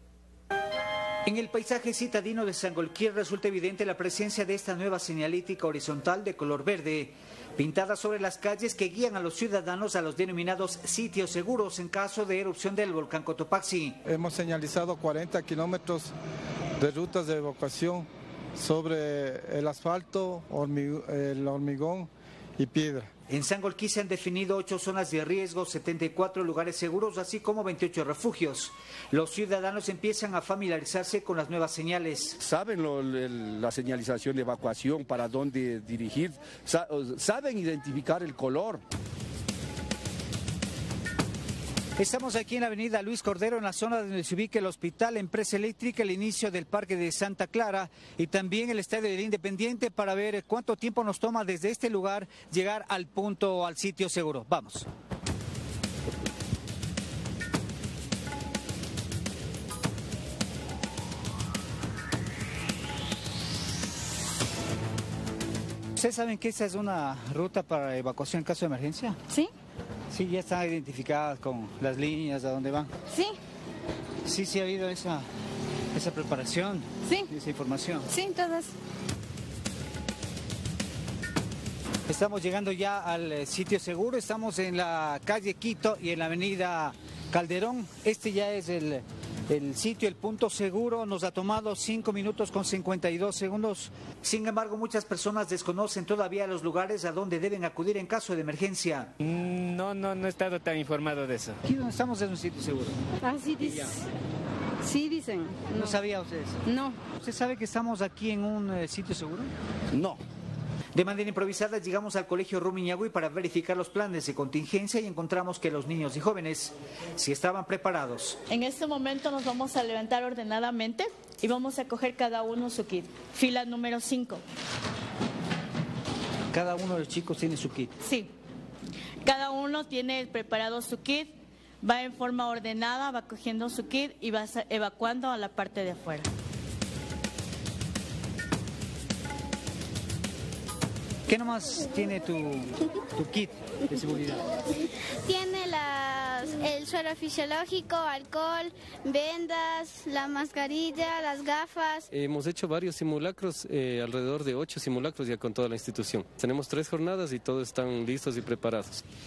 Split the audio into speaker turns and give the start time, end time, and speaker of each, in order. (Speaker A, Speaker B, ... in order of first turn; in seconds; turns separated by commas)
Speaker A: 1.2-14.0, Speaker B: 14.0-16.1, Speaker B: 16.8-23.1, Speaker A: 23.3-32.4, Speaker C: 32.4-38.8, Speaker A: 42.0-54.9, Speaker A: 66.0-69.2, Speaker A: 70.1-72.9, Speaker D: 73.1-73.4, Speaker A: 74.2-75.2, Speaker A: 75.9-78.1, Speaker D: 78.1-78.7, Speaker A: 82.1-99.1, Speaker E: 99.2-101.6, Speaker A: 101.6-103.0, Speaker D: 103.2-104.0, Speaker D: 104.8-106.0, Speaker A: 105.7-109.5, Speaker D: 106.6-107.0, Speaker E: 109.9-110.2, Speaker A: 110.9-118.4, Speaker F: 118.5-124.4, Speaker A: 126.5-128.0, Speaker F: 128.0-128.3, Speaker F: 129.2-136.3, Speaker A: 141.3-144.5, Speaker G: 145.2-152.1, Speaker H: 152.1-159.0